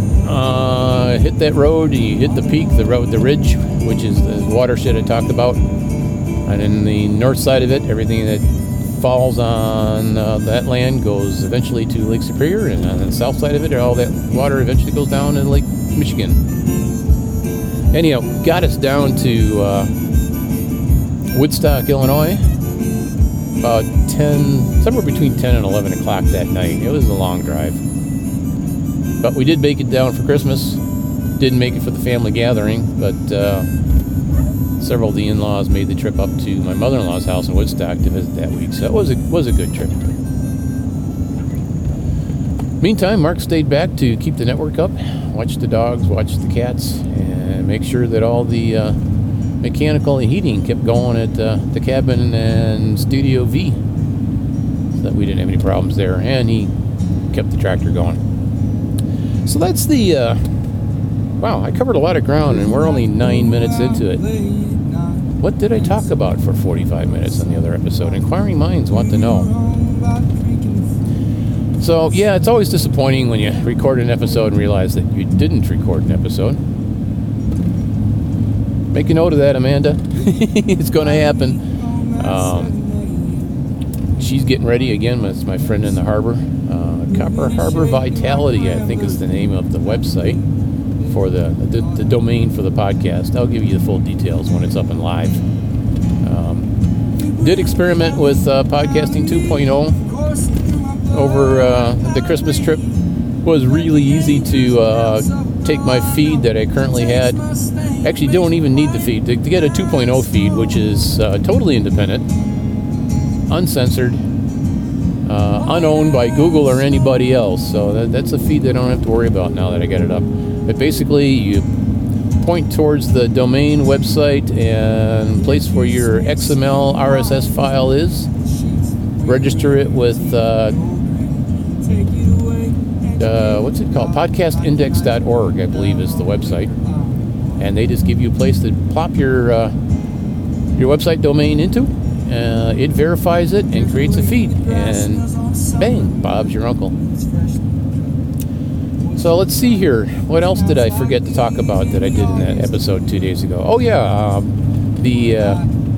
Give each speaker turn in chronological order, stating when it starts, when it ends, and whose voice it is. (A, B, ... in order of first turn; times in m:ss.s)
0:00.2-0:05.6 A
0:06.4-0:16.4 A
0:17.9-0:19.9 A
0:21.3-0:22.4 A
0:23.6-0:27.8 A
0:29.2-0:30.8 A
0:31.4-0:33.7 A
0:34.8-0:40.0 A
0:42.8-0:49.0 A
0:49.6-0:53.8 A
0:55.0-0:56.7 A
0:57.3-0:58.2 A
0:59.4-1:00.4 A
1:01.4-1:04.3 A
1:05.4-1:09.5 A
1:11.8-1:16.6 A
1:18.9-1:21.6 A
1:22.1-1:22.8 A
1:24.2-1:30.4 A
1:31.0-1:35.4 A
1:36.2-1:36.7 A
1:37.4-1:40.0 A
1:41.1-1:42.8 A
1:43.4-1:47.4 A
1:48.0-1:52.2 A
1:53.5-1:54.2 A
1:55.2-2:01.7 A
2:02.4-2:08.3 A
2:09.2-2:10.8 A
2:13.2-2:16.7 A
2:17.6-2:19.7 A
2:20.8-2:27.0 A
2:29.1-2:35.6 A